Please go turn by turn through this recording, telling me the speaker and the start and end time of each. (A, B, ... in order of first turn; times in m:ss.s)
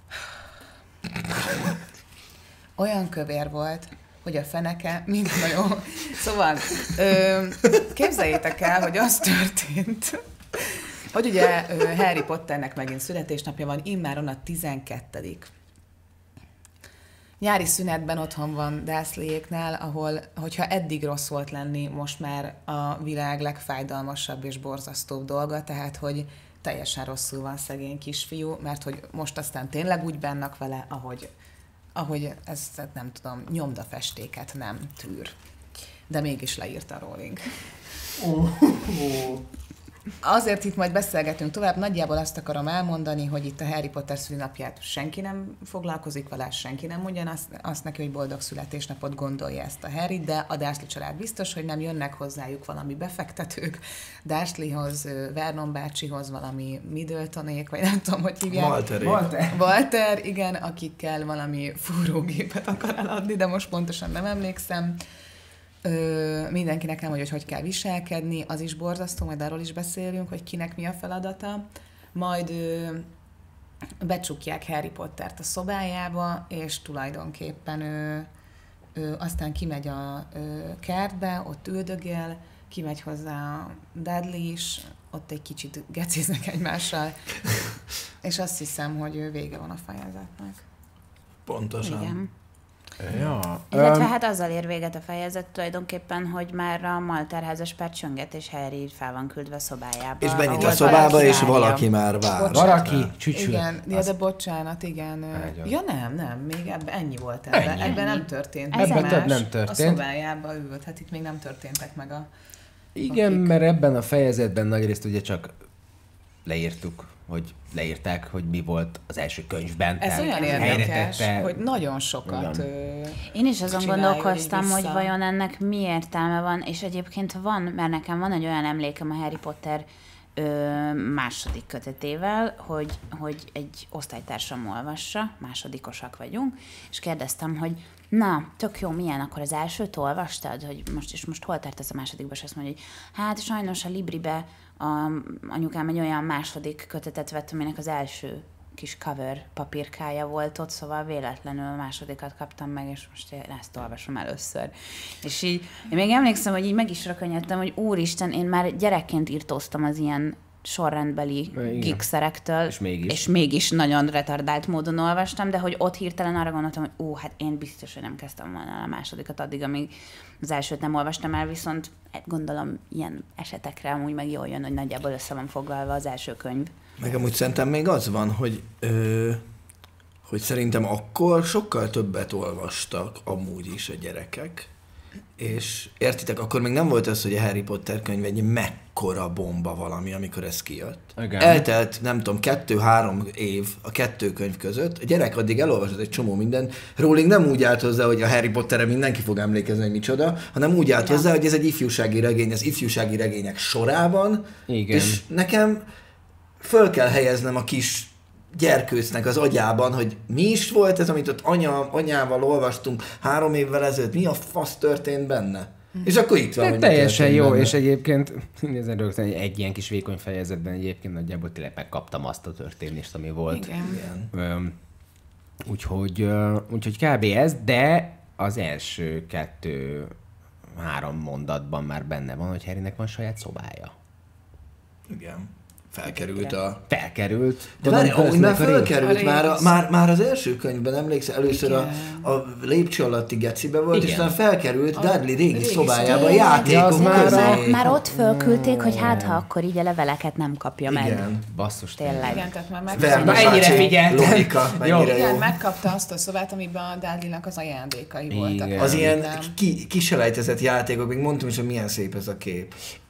0:02.8-0:15.5 A
0:17.4-0:31.3 A
0:31.9-0:35.3 A
0:36.1-0:37.9 A
0:38.2-0:39.0 B
0:38.9-0:39.4 C
0:40.2-0:58.8 A
0:58.5-0:59.2 C
0:59.0-0:59.6 B
0:59.5-1:05.0 A
1:05.8-1:13.1 A
1:14.0-1:18.3 A
1:18.9-1:30.6 A
1:31.4-1:32.2 C
1:31.8-1:32.3 D
1:33.0-1:34.1 B
1:33.7-1:41.8 D
1:40.2-1:42.8 C
1:40.5-1:52.3 A
1:42.5-1:44.1 B
1:45.3-1:45.7 B
1:47.5-1:48.0 B
1:47.8-1:49.2 D
1:48.7-1:50.0 B
1:52.9-1:55.5 B
1:53.1-1:53.5 A
1:56.4-2:01.7 B
2:00.0-2:05.1 A
2:00.2-2:00.8 D
2:02.2-2:02.6 B
2:03.3-2:56.7 D
2:41.5-2:42.0 B
2:42.7-2:43.2 B
2:57.0-2:59.4 C
3:00.2-3:04.7 C
3:05.4-3:25.8 C
3:11.2-3:11.6 B
3:24.7-3:25.2 B
3:26.6-3:37.7 C
3:36.6-3:44.7 B
3:43.5-3:44.0 A
3:43.8-3:44.3 C
3:45.6-3:50.1 B
3:50.7-3:53.9 B
3:55.1-3:56.8 C
3:56.9-3:58.9 B
3:57.8-4:08.0 C
3:59.0-3:59.7 A
4:01.5-4:02.3 A
4:03.9-4:04.3 B
4:04.9-4:06.8 A
4:06.0-4:11.3 D
4:06.6-4:09.4 B
4:10.9-4:11.4 C
4:11.5-4:12.5 B
4:12.0-4:13.9 D
4:12.2-4:13.8 A
4:12.9-4:15.5 C
4:13.0-4:15.3 B
4:15.0-4:19.5 A
4:18.3-4:19.1 B
4:18.8-4:22.7 C